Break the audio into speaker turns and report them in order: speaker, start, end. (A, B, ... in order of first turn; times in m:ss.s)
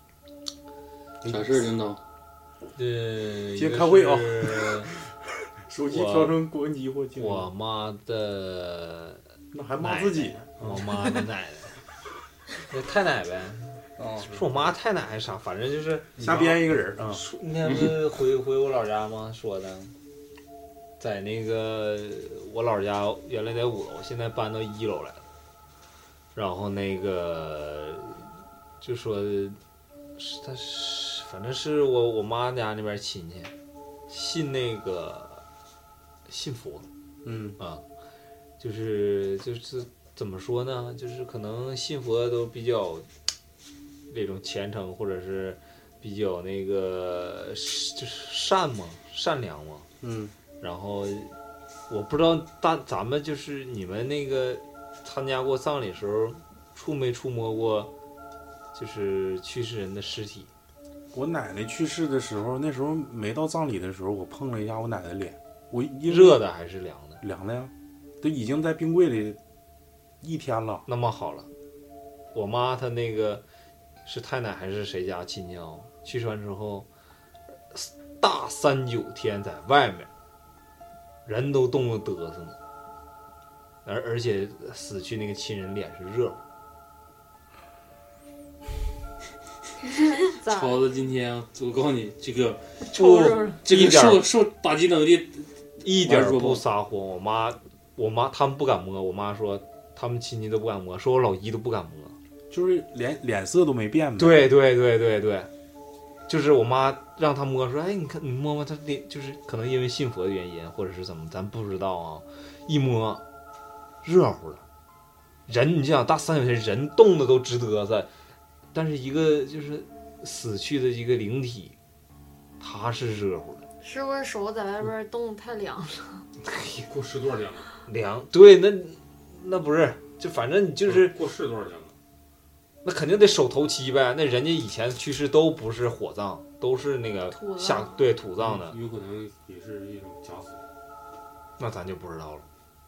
0:01.2-0:01.7 A
0:01.2-0:02.0 B
0:02.8-0:04.9 C
0:03.5-0:04.9 A
0:05.7-0:07.4 A
0:05.9-0:06.4 C
0:07.1-0:09.2 C
0:09.5-0:10.9 A
0:09.8-0:11.7 C
0:12.7-0:16.5 C
0:14.0-0:14.3 A
0:16.2-0:16.5 D
0:16.2-0:17.2 A
0:17.0-0:19.9 C
0:17.6-0:18.0 B
0:21.0-0:25.2 C
0:26.3-0:28.3 C
0:28.8-0:29.6 C
0:30.2-0:33.5 C
0:34.1-0:35.4 C
0:36.3-0:36.9 C
0:37.2-0:37.6 A
0:38.6-0:43.0 C
0:44.1-0:49.9 C
0:50.0-0:50.3 A
0:50.6-0:51.3 C
0:51.9-0:57.9 C
0:58.7-1:00.5 C
1:01.1-1:06.4 A
1:06.0-1:07.2 C
1:07.2-1:09.4 A
1:10.2-1:10.8 A
1:10.9-1:11.5 C
1:12.3-1:13.4 C
1:14.0-1:16.9 C
1:17.7-1:20.1 C
1:21.2-1:22.6 C
1:23.8-1:26.4 C
1:30.0-1:30.8 E
1:30.4-1:32.8 B
1:32.8-1:33.6 E
1:33.0-1:34.2 C
1:33.6-1:36.6 B
1:35.8-1:42.2 C
1:42.5-1:44.5 A
1:44.2-1:45.5 C
1:46.3-1:53.2 C
1:54.0-1:54.6 C
1:55.5-1:58.1 C
1:58.7-2:01.7 C
2:02.6-2:03.6 C
2:03.8-2:06.2 E
2:06.4-2:06.8 C
2:06.8-2:07.7 D
2:07.8-2:11.2 C
2:10.8-2:11.9 D
2:12.8-2:18.8 C
2:17.3-2:18.1 E
2:18.4-2:20.6 D
2:21.6-2:22.4 C